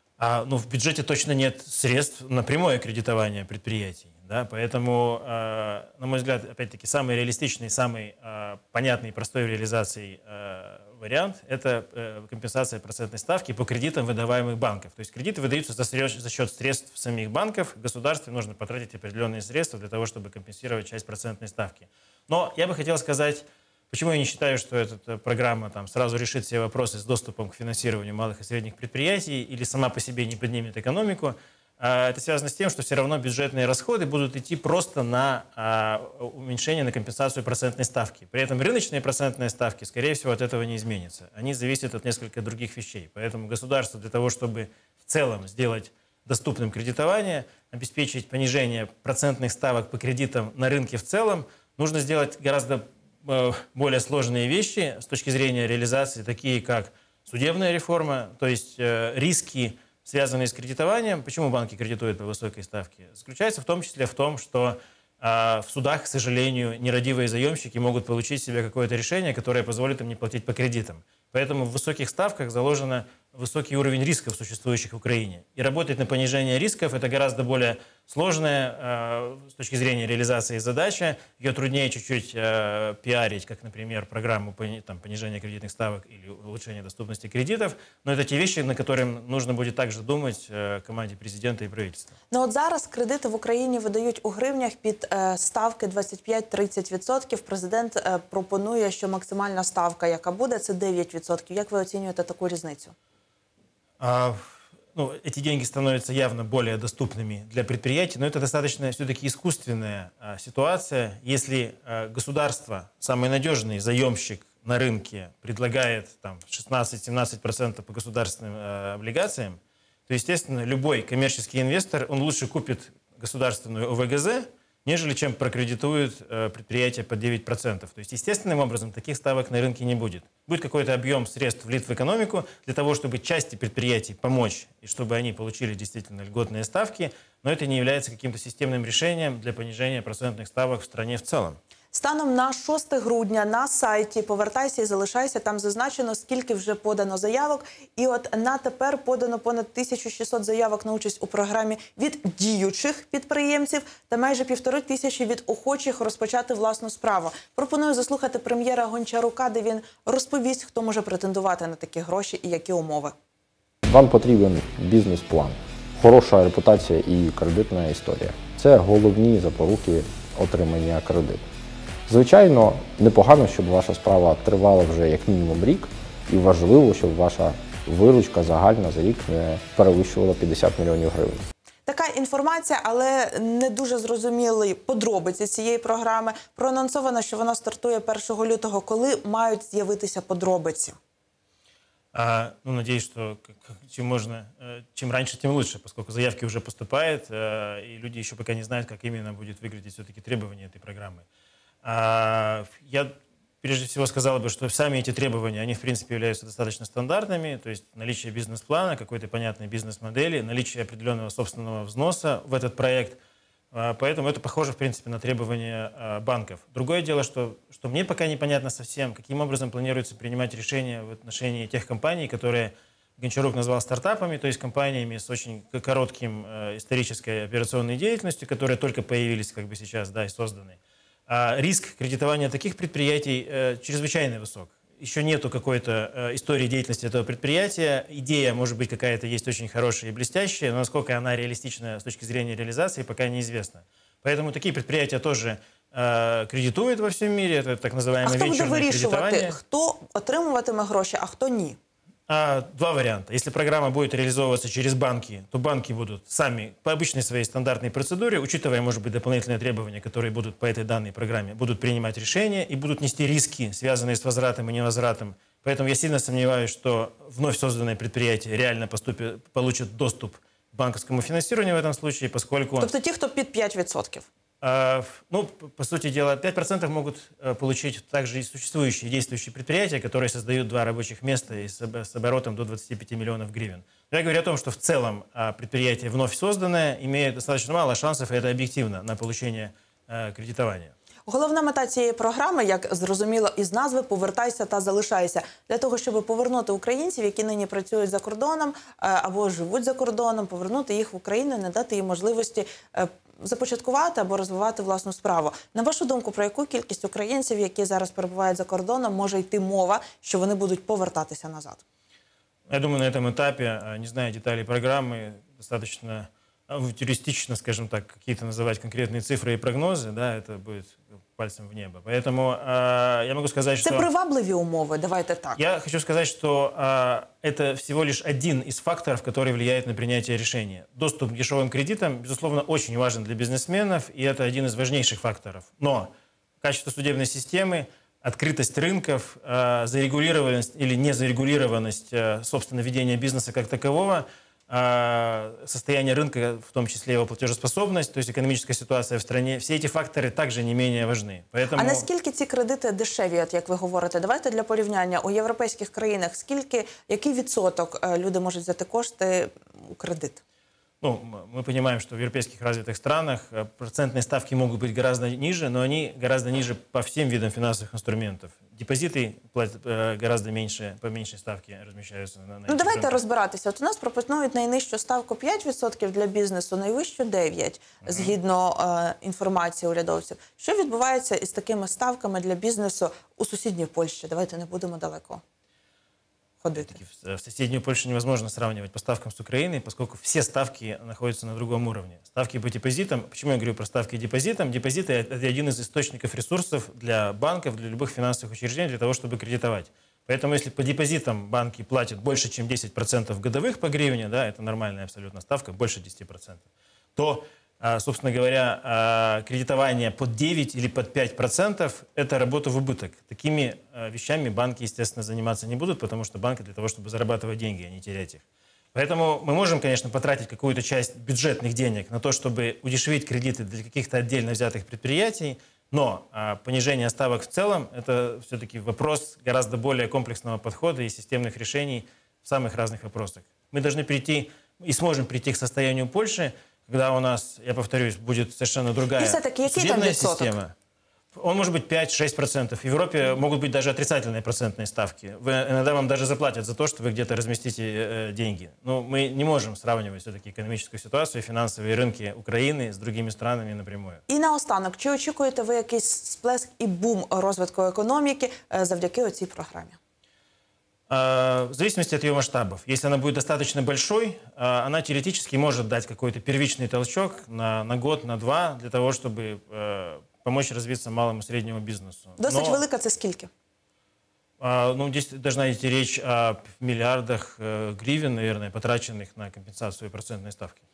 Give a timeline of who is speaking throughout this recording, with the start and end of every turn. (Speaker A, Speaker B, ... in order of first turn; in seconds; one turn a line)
Speaker A: 0.2-92.1
Speaker B: 92.3-103.0
Speaker A: 104.0-141.6
Speaker B: 141.9-163.2
Speaker C: 163.8-171.4
Speaker C: 172.1-181.4
Speaker B: 181.9-191.0
Speaker A: 192.1-201.3
Speaker A: 201.8-213.2
Speaker A: 213.7-249.6
Speaker B: 248.2-251.8
Speaker A: 252.3-272.9
Speaker B: 272.8-274.3
Speaker A: 274.6-290.9
Speaker B: 291.3-311.8
Speaker A: 312.7-324.1
Speaker B: 323.8-325.6
Speaker A: 325.6-352.1
Speaker B: 351.8-360.4
Speaker A: 361.0-373.2
Speaker B: 372.7-385.4
Speaker A: 378.0-378.3
Speaker B: 386.6-387.0
Speaker A: 386.8-406.6
Speaker A: 407.2-418.4
Speaker A: 418.9-440.7
Speaker B: 439.2-440.6
Speaker A: 441.4-454.2
Speaker B: 454.3-460.0
Speaker A: 461.1-472.8
Speaker B: 472.4-473.5
Speaker A: 474.6-480.8